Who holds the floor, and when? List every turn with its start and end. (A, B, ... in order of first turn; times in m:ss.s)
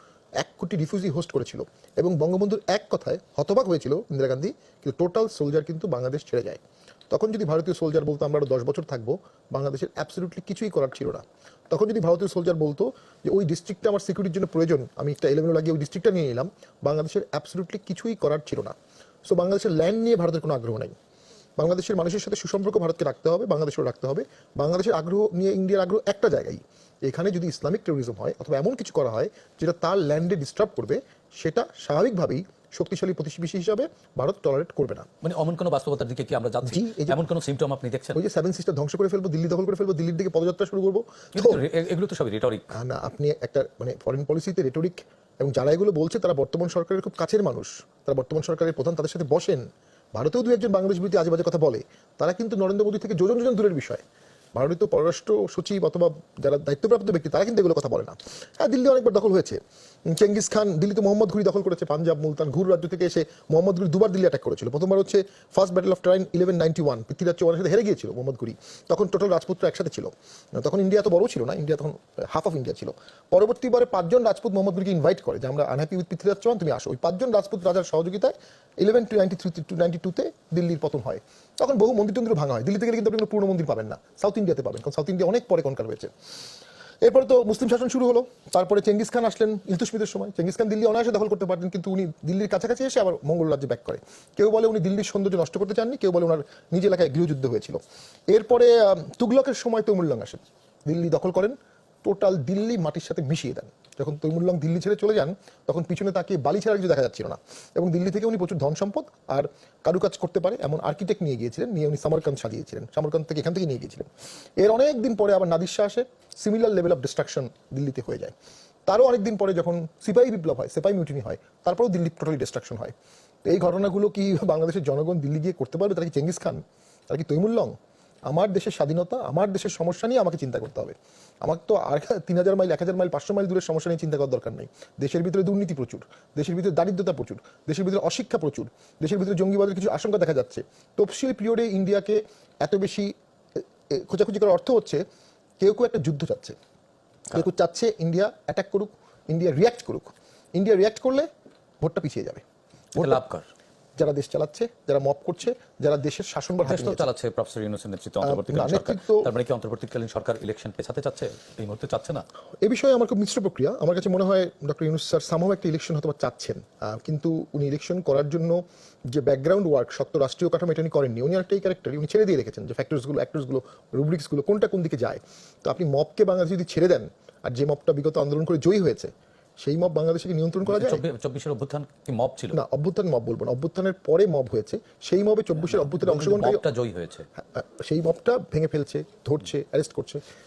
0:00.4-0:06.6 A
0:07.1-0:18.8 A
0:19.3-0:21.0 A
0:21.6-0:35.1 A
0:35.2-0:38.2 B
0:36.6-0:37.2 A
0:38.1-0:41.6 A
0:41.3-0:42.7 B
0:42.7-0:54.0 A
0:54.6-1:26.1 A
1:27.0-1:58.4 A
1:58.9-2:02.9 A
2:03.4-2:07.8 A
2:08.3-2:25.0 A
2:25.6-2:26.6 A
2:27.3-2:31.3 A
2:31.8-2:32.4 A
2:33.0-2:33.2 A
2:33.0-2:33.5 B
2:34.0-2:37.1 A
2:36.6-2:42.2 B
2:38.2-2:39.3 A
2:42.6-3:01.0 A
3:00.7-3:02.6 B
3:02.5-3:06.6 A
3:05.6-3:07.3 B
3:07.4-3:10.2 A